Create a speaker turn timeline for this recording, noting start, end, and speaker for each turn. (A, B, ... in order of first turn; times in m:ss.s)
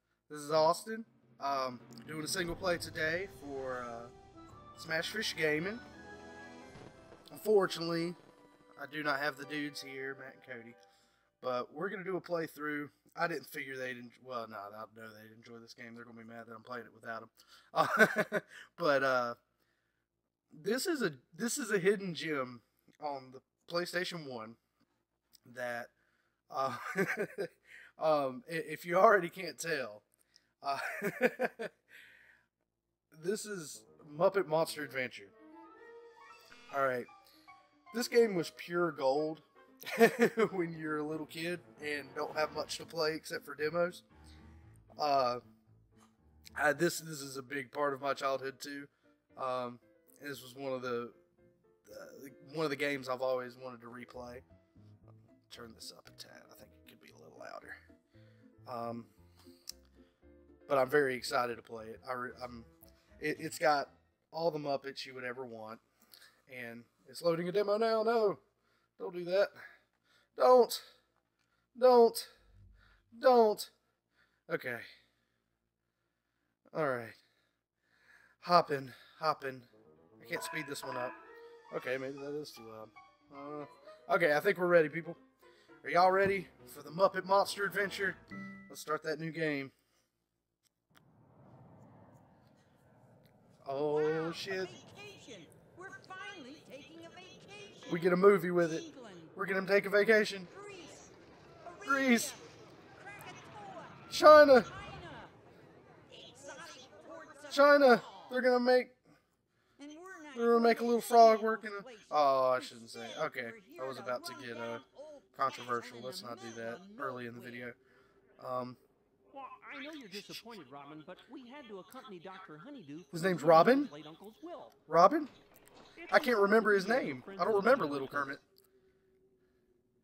0:00.3-0:04.1 A
0:04.7-0:05.8 A
0:07.3-0:08.2 A
0:08.8-0:10.8 A
0:11.4-0:19.4 A
0:20.5-0:24.6 A
0:25.4-0:25.9 A
0:26.5-0:30.0 A
0:30.6-0:31.7 A
0:33.1-0:35.3 A
0:36.7-0:37.1 A
0:37.9-0:44.0 A
0:45.0-0:45.4 A
0:46.6-0:51.2 A
0:51.8-0:54.4 A
0:55.5-0:57.8 A
0:58.6-0:59.1 A
1:00.7-1:05.8 A
1:06.5-1:08.4 A
1:09.0-1:09.5 A
1:10.4-1:10.8 A
1:11.7-1:12.3 A
1:13.1-1:13.7 A
1:14.5-1:14.9 A
1:16.7-1:17.2 A
1:18.4-1:21.2 A
1:21.7-1:25.2 A
1:25.8-1:29.7 A
1:33.6-1:34.7 A
1:33.8-1:39.4 B
1:37.9-1:38.8 A
1:39.4-1:40.5 A
1:40.5-1:41.1 B
1:41.6-1:42.4 B
1:41.8-1:42.3 A
1:43.0-1:45.4 B
1:44.1-1:44.7 A
1:46.1-1:48.4 B
1:47.5-1:48.9 A
1:49.8-1:57.7 B
1:50.3-1:54.8 A
1:55.4-1:57.8 A
1:58.4-1:58.8 A
1:59.3-2:04.8 C
2:00.1-2:00.4 A
2:03.1-2:03.9 A
2:04.9-2:05.3 A
2:06.0-2:08.4 C
2:06.1-2:08.4 A